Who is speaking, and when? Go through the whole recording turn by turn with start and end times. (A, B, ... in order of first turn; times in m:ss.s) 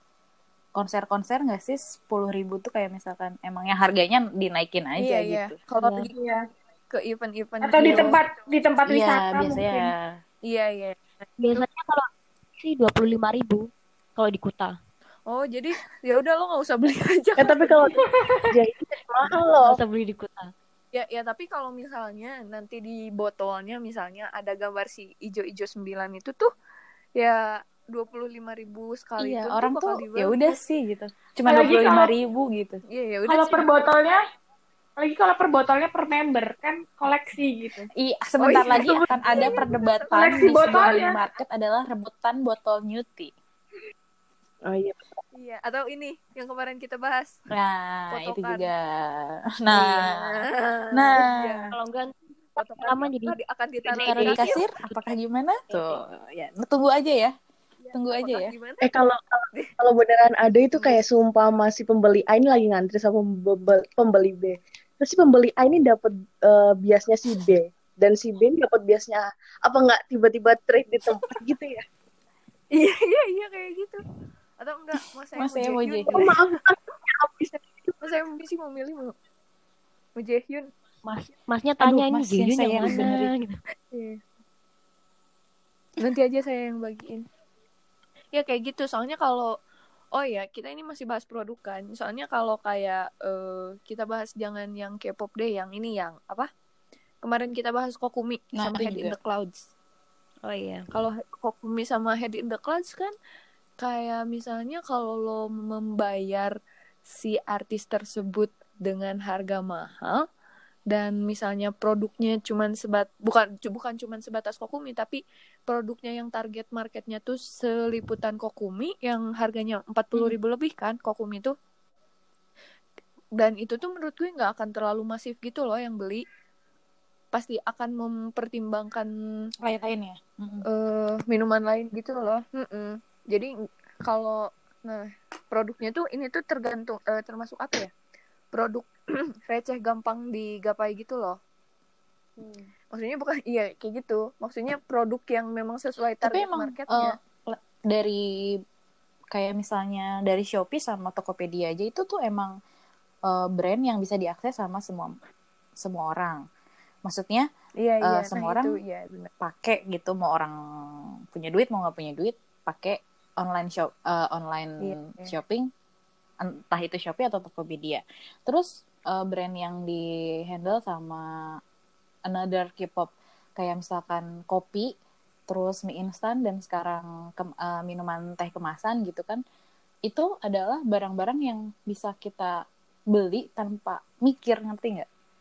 0:00.8-0:05.6 A
0:05.0-0:06.1 B
0:06.1-0:06.4 C
0:06.9-0:08.2 B
0:07.6-0:09.9 C
0:08.9-0:10.2 A
0:10.5-0:11.6 B
0:11.4-0:12.1 D
0:12.6-0:14.8 D
0:15.3-0:17.9 B
0:17.4-0:18.0 E
0:18.0-0:18.6 C
0:18.5-0:19.8 E
0:19.6-0:20.5 D
0:20.9-0:26.5 B
0:27.2-0:30.6 B
0:29.2-0:32.8 A
0:31.5-0:32.1 C
0:32.9-0:33.7 B
0:33.3-0:34.2 C
0:35.0-0:37.9 C
0:38.0-0:43.3 A
0:38.4-0:40.6 B
0:38.6-0:39.6 C
0:40.1-0:41.2 C
0:44.7-0:45.0 E
0:45.3-0:47.4 B
0:47.5-0:50.4 A
0:48.1-0:48.7 B
0:49.7-0:51.7 B
0:50.9-0:51.7 A
0:51.7-0:53.4 D
0:52.6-0:54.7 B
0:53.9-0:54.6 D
0:54.0-0:57.3 A
0:57.8-0:58.9 B
0:57.9-0:58.6 A
0:58.8-1:11.8 E
1:12.7-1:14.0 B
1:14.6-1:16.4 B
1:15.4-1:16.4 A
1:16.1-1:17.9 E
1:18.0-1:19.1 B
1:20.2-1:20.7 B
1:21.0-1:23.6 D
1:21.8-1:23.3 A
1:23.9-1:24.2 B
1:26.0-1:27.3 B
1:28.3-1:29.5 B
1:30.1-1:36.5 B
1:37.2-1:39.7 B
1:38.6-1:39.2 A
1:40.4-1:40.8 D
1:40.9-1:43.1 B
1:43.8-1:46.6 B
1:47.1-1:50.2 B
1:50.9-2:01.5 B
2:03.4-2:06.2 B
2:07.3-2:09.5 B
2:09.6-2:10.6 A
2:10.6-2:17.9 B
2:18.5-2:21.4 B
2:22.9-2:27.2 B
2:26.2-2:28.6 A
2:29.3-2:32.6 A
2:33.3-2:35.2 A
2:35.8-2:36.4 A
2:37.0-2:37.5 A
2:37.8-2:39.3 B
2:38.0-2:38.8 A
2:39.4-2:45.7 A
2:44.8-2:45.4 B
2:46.4-2:51.6 A
2:52.3-2:54.9 A
2:55.5-2:59.4 A
3:00.1-3:05.1 A